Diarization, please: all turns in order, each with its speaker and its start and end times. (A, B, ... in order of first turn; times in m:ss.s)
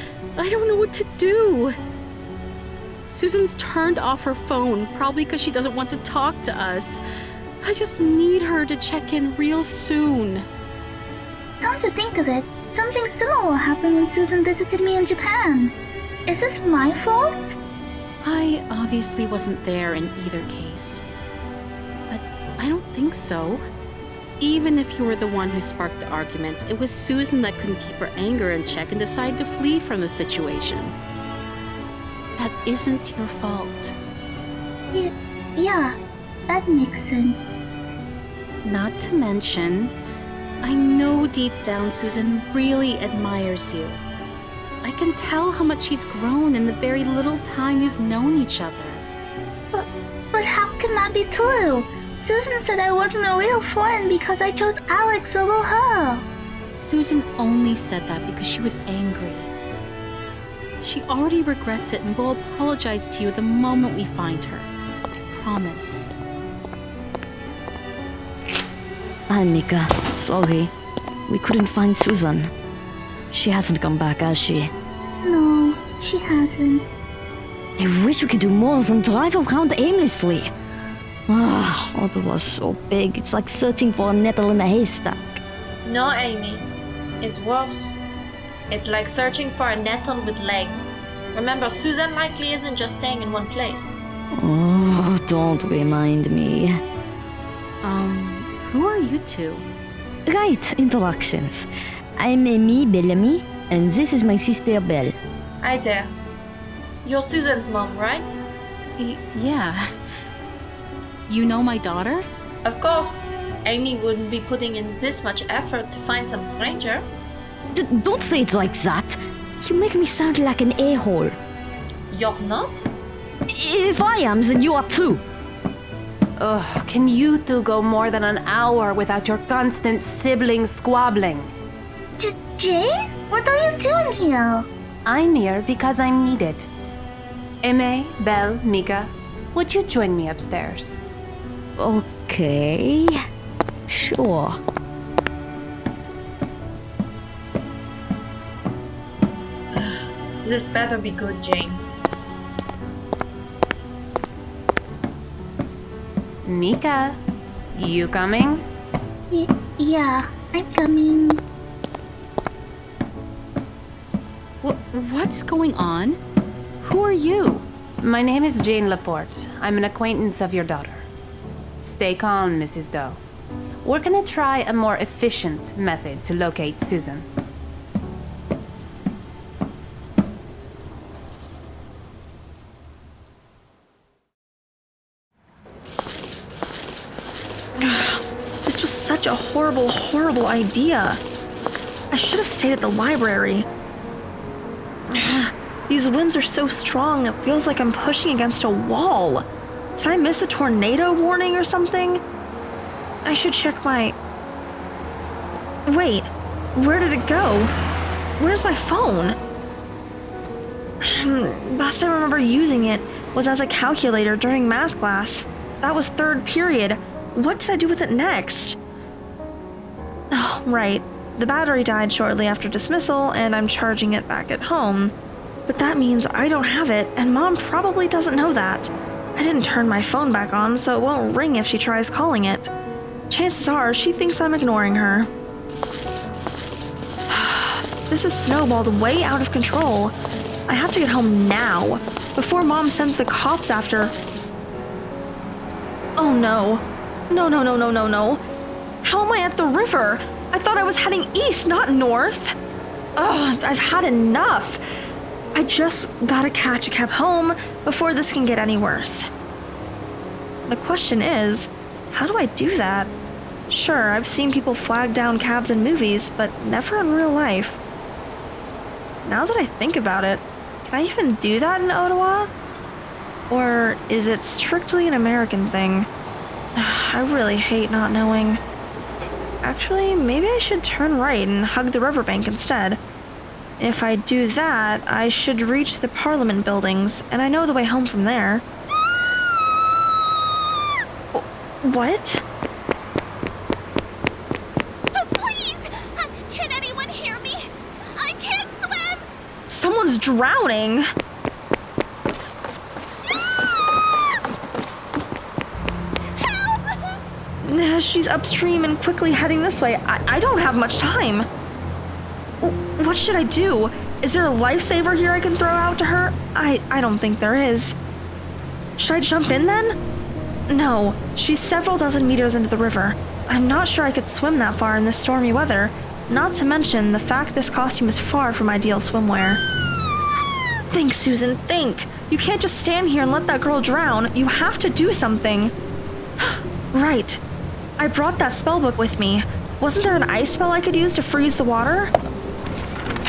0:00.4-0:01.8 A
0:03.1-0:07.0 A
0:07.6-0:10.5 A
0:11.6-0:15.7 B
0:16.3-0:17.6 B
0:18.2-0:21.0 A
0:22.1-0:23.6 A
0:24.4-0:31.0 A
0:32.4-0:34.0 A
0:34.9-0:36.0 B
0:36.5-0:37.6 B
0:38.6-0:39.9 A
0:40.6-0:44.0 A
0:44.8-0:49.0 A
0:49.7-0:56.2 B
0:56.7-0:59.5 A
1:00.8-1:04.7 A
1:05.3-1:06.1 A
1:09.3-1:10.7 C
1:11.3-1:12.5 C
1:13.3-1:14.7 C
1:15.2-1:16.8 B
1:17.8-1:20.5 C
1:21.3-1:25.4 C
1:25.8-1:26.7 D
1:27.2-1:28.0 D
1:28.7-1:34.0 D
1:34.4-1:36.8 C
1:37.8-1:39.7 A
1:40.3-1:45.1 C
1:45.6-1:46.2 D
1:47.0-1:48.4 D
1:49.0-1:49.9 A
1:51.3-1:52.3 A
1:52.6-1:57.1 D
1:57.8-2:01.4 C
2:02.1-2:02.9 D
2:03.5-2:05.2 C
2:06.4-2:11.5 E
2:12.2-2:14.7 B
2:15.1-2:16.7 E
2:17.6-2:21.0 E
2:21.8-2:23.2 C
2:23.9-2:24.6 C
2:29.7-2:31.8 D
2:36.4-2:37.2 E
2:37.7-2:38.6 E
2:39.3-2:41.4 B
2:44.6-2:46.2 A
2:46.8-2:47.6 A
2:48.0-2:51.1 E
2:51.8-2:53.2 E
2:53.8-2:57.3 E
3:07.8-3:11.2 F
3:12.1-3:13.7 F
3:15.1-3:19.5 F
3:20.0-3:22.2 F
3:23.3-3:24.2 F
3:25.9-3:27.7 F
3:28.4-3:29.4 F
3:31.0-3:38.8 F
3:40.3-3:45.1 F
3:45.7-3:52.7 F
3:53.3-3:55.3 F
3:57.3-4:00.1 F
4:00.7-4:04.2 F
4:06.2-4:08.4 F
4:09.0-4:12.6 F
4:13.2-4:14.8 F
4:15.6-4:19.3 F
4:20.7-4:23.1 F
4:23.7-4:27.8 F
4:29.2-4:32.5 F
4:33.5-4:36.1 F
4:36.8-4:38.6 F
4:39.6-4:43.0 F
4:43.8-4:48.6 F
4:51.3-4:52.4 F
4:55.1-4:59.2 G
4:59.7-5:01.1 F
5:06.4-5:07.0 G
5:07.6-5:11.5 F
5:12.6-5:18.0 F
5:19.0-5:20.0 F
5:20.7-5:29.6 F
5:30.9-5:35.7 F
5:36.4-5:37.4 F
5:38.0-5:42.1 F